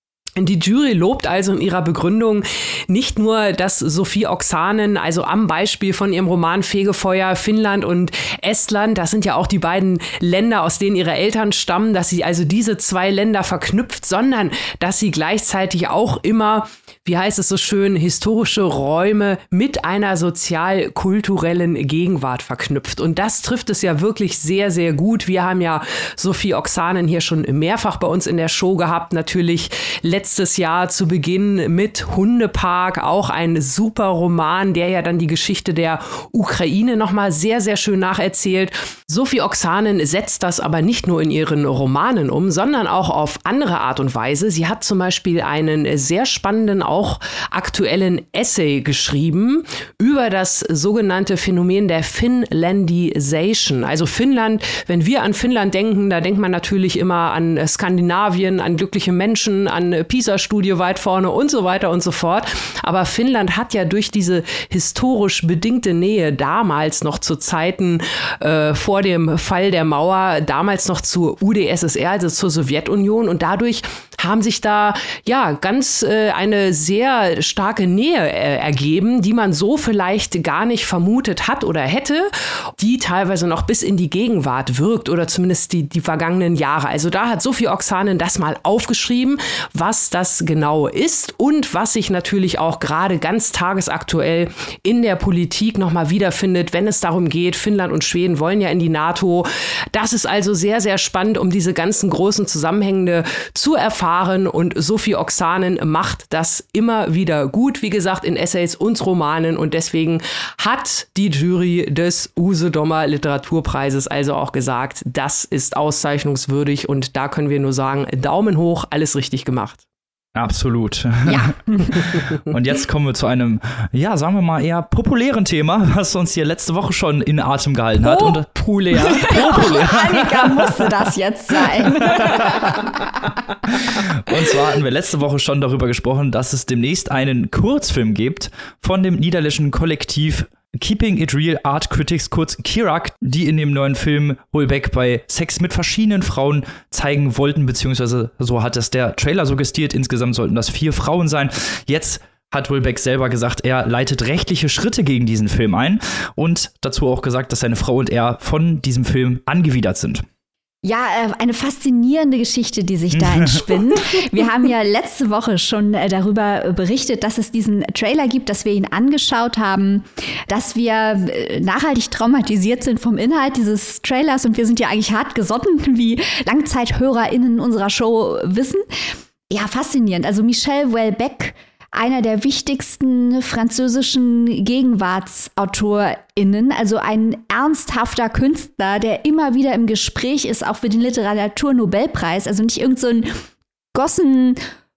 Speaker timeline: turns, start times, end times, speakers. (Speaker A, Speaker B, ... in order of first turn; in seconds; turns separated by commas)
Speaker A: 0.4-119.8, Speaker B: 120.3-130.9, Speaker C: 121.3-122.0, Speaker A: 128.0-129.7, Speaker C: 129.1-132.8, Speaker B: 132.0-132.8, Speaker B: 133.7-160.2, Speaker C: 160.8-178.8, Speaker B: 163.2-163.6, Speaker C: 179.5-193.4, Speaker C: 193.9-194.6